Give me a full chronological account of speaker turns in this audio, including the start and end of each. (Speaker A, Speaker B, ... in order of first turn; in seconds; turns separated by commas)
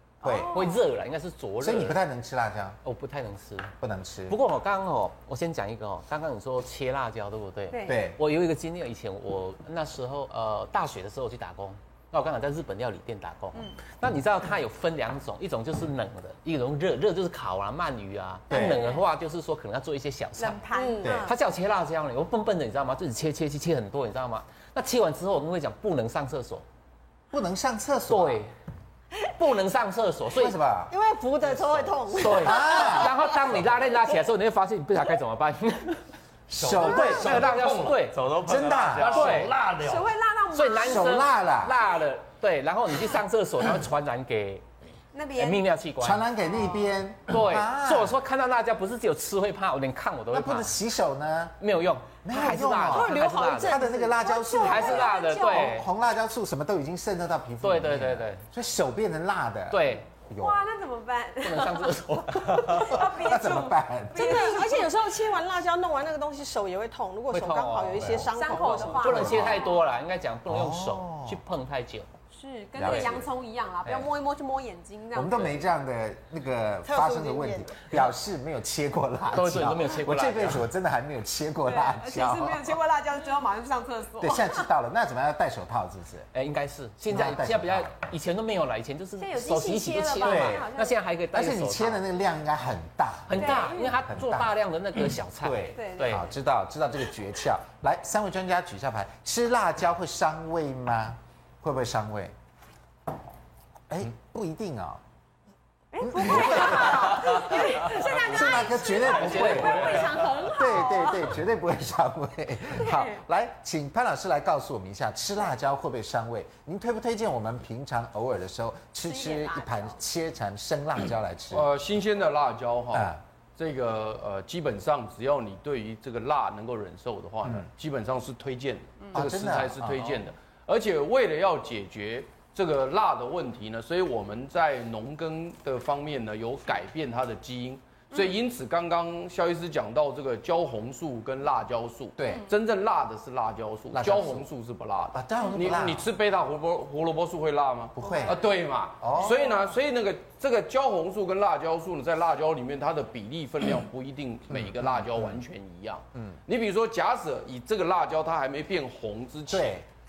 Speaker A: 0.2-0.8, Speaker B: 0.2-0.6, Speaker C: 0.4-2.0, Speaker B: 1.6-2.8, Speaker C: 2.8-3.7, Speaker B: 3.8-4.4, Speaker C: 4.3-20.7, Speaker A: 7.7-8.0, Speaker B: 7.8-8.2, Speaker B: 18.5-18.8, Speaker A: 18.5-19.1, Speaker A: 20.4-21.3, Speaker D: 20.7-21.2, Speaker B: 21.0-21.3, Speaker C: 21.2-26.6, Speaker B: 27.3-28.4, Speaker C: 28.1-28.5, Speaker C: 29.4-30.6, Speaker B: 30.3-30.9, Speaker D: 30.9-33.3, Speaker C: 32.1-36.0, Speaker B: 32.4-33.1, Speaker E: 36.5-38.1, Speaker B: 36.6-37.5, Speaker C: 36.8-38.2, Speaker F: 37.9-39.4, Speaker B: 38.4-39.3, Speaker E: 38.9-40.1, Speaker C: 39.1-39.6, Speaker A: 39.7-41.2, Speaker C: 40.5-44.6, Speaker B: 40.8-41.8, Speaker A: 45.1-45.7, Speaker C: 45.3-46.3, Speaker B: 46.0-48.2, Speaker C: 47.2-50.8, Speaker B: 50.3-51.6, Speaker C: 51.6-53.9, Speaker B: 52.2-60.6, Speaker D: 52.5-54.4, Speaker A: 54.2-55.7, Speaker C: 54.5-55.9, Speaker C: 57.6-58.4, Speaker C: 59.7-60.1, Speaker A: 60.4-64.9, Speaker C: 61.4-62.8, Speaker B: 62.6-64.6, Speaker D: 64.1-69.6, Speaker C: 67.3-72.1, Speaker B: 68.0-68.3, Speaker A: 68.3-69.9, Speaker B: 69.1-69.6, Speaker B: 70.5-71.4, Speaker A: 72.3-75.5, Speaker B: 72.8-73.3, Speaker C: 72.8-73.2, Speaker C: 73.8-74.1, Speaker B: 75.1-82.8, Speaker D: 76.8-77.8, Speaker C: 79.3-80.6, Speaker A: 81.7-84.7, Speaker B: 84.2-86.3, Speaker C: 86.3-92.0, Speaker B: 87.0-87.9, Speaker A: 89.2-91.0, Speaker B: 90.2-90.7, Speaker B: 91.3-94.5, Speaker C: 93.3-96.3, Speaker A: 93.3-94.0, Speaker B: 95.4-102.3, Speaker A: 95.7-96.2, Speaker B: 103.9-105.0, Speaker A: 105.9-111.3, Speaker B: 106.0-121.7, Speaker F: 109.0-110.3, Speaker A: 112.8-113.2, Speaker A: 119.0-120.0, Speaker G: 121.5-159.8, Speaker B: 122.9-123.2, Speaker B: 129.1-130.2, Speaker B: 142.2-142.4, Speaker B: 143.9-144.4, Speaker B: 145.1-146.1, Speaker A: 145.4-145.7, Speaker B: 147.9-148.4, Speaker A: 148.0-148.5, Speaker B: 149.0-149.4, Speaker A: 149.1-149.7, Speaker B: 154.5-155.4, Speaker B: 156.1-156.4, Speaker B: 159.5-159.8